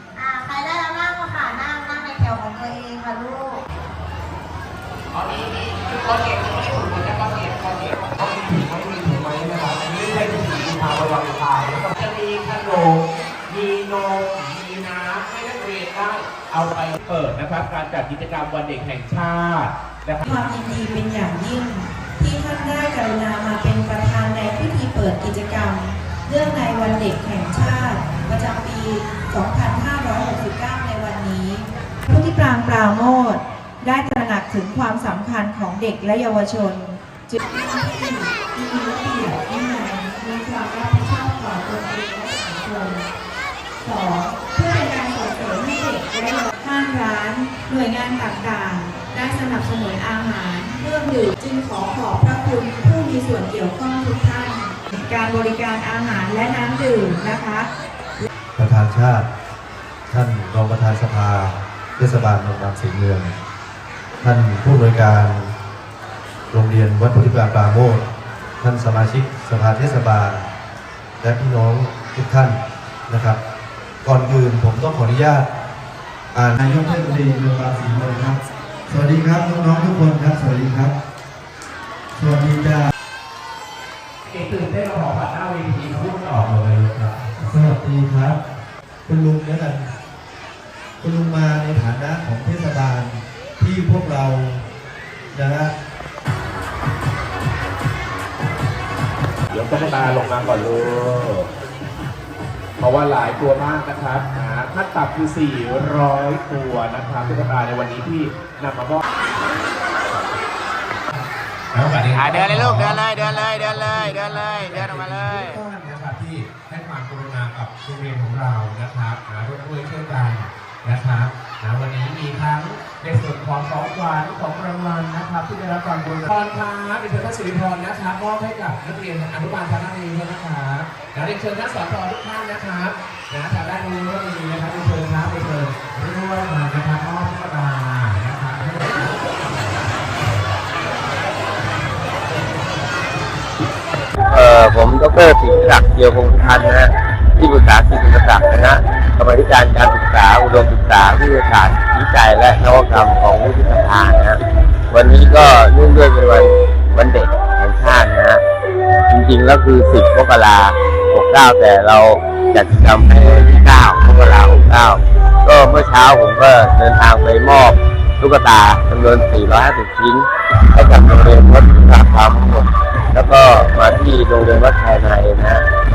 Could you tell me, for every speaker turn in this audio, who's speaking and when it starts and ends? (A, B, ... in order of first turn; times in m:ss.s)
0:00.1-0:03.6 A
0:05.1-0:20.2 B
0:20.2-0:43.1 C
0:43.8-0:58.3 C
0:58.6-0:59.3 D
1:00.1-1:03.3 D
1:04.2-1:05.5 D
1:06.5-1:08.0 D
1:08.6-1:10.5 D
1:11.2-1:12.6 D
1:13.1-1:13.4 D
1:14.0-1:15.5 D
1:16.3-1:21.0 D
1:22.2-1:22.9 D
1:24.2-1:27.3 B
1:27.4-1:28.4 D
1:29.0-1:29.9 D
1:31.0-1:34.6 D
1:35.3-1:35.7 D
1:39.5-1:41.5 B
1:42.8-1:49.0 B
1:51.1-2:19.3 B
2:24.3-2:34.4 E
2:34.9-2:38.4 E
2:39.1-2:55.6 E